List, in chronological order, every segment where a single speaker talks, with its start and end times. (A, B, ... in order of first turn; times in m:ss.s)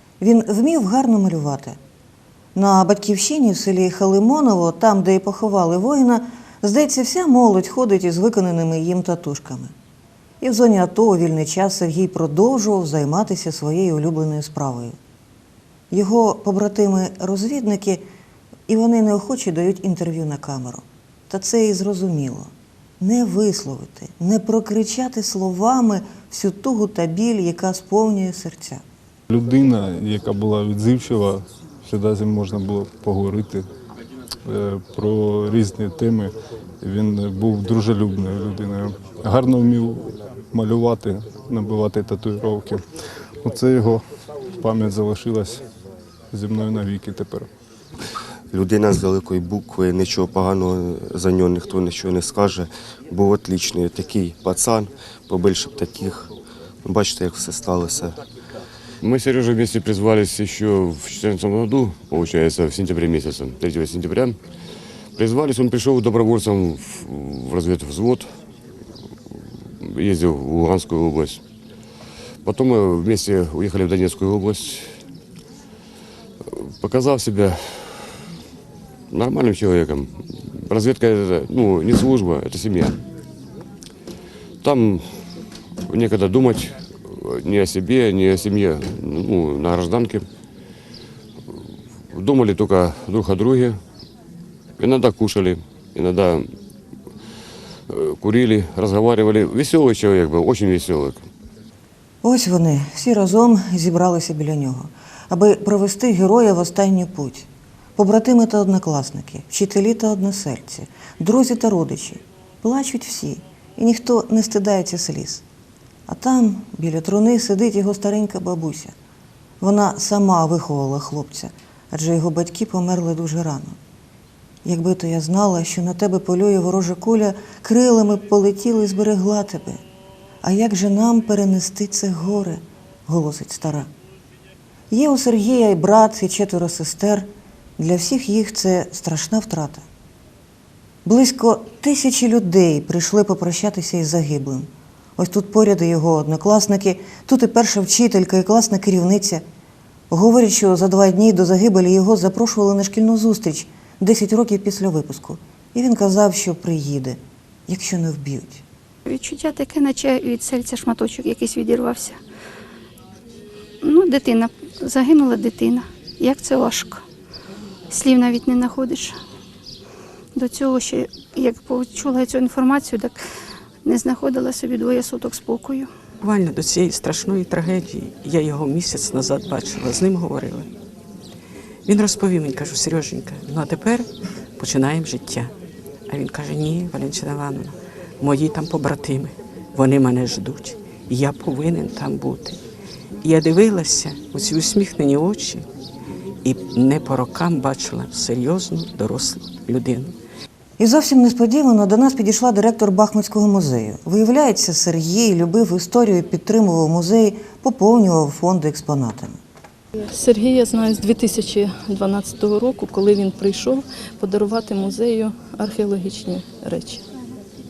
0:00.2-0:01.8 A
0:02.5-0:09.7 A
0:10.4-0:15.0 A
0:15.9-0:18.0 A
0:18.7-0:28.8 A
0:29.3-0:33.6 B
0:34.4-0:42.8 B
0:43.4-0:44.0 B
0:44.6-0:45.6 B
0:46.3-0:47.5 B
0:48.5-0:56.3 C
0:56.8-0:58.2 C
0:59.0-1:04.4 D
1:05.2-1:08.3 D
1:09.8-1:11.4 D
1:12.4-1:14.9 D
1:16.5-1:18.2 D
1:19.1-1:23.0 D
1:24.6-1:25.1 D
1:25.9-1:30.2 D
1:32.1-1:33.8 D
1:34.8-1:36.4 D
1:37.9-1:41.2 D
1:42.2-1:55.4 A
1:56.1-1:58.9 A
1:59.6-2:03.8 A
2:04.6-2:09.8 A
2:10.4-2:13.9 A
2:14.9-2:17.3 A
2:17.8-2:19.8 A
2:21.0-2:29.4 A
2:30.1-2:38.6 A
2:39.1-2:42.2 E
2:43.8-2:47.0 E
2:47.9-2:49.2 E
2:50.3-2:53.2 E
2:53.8-2:55.9 E
2:56.2-3:00.7 F
3:01.9-3:05.5 F
3:06.1-3:12.6 F
3:13.2-3:15.6 F
3:16.4-3:20.1 F
3:20.8-3:29.4 A
3:30.0-3:37.0 G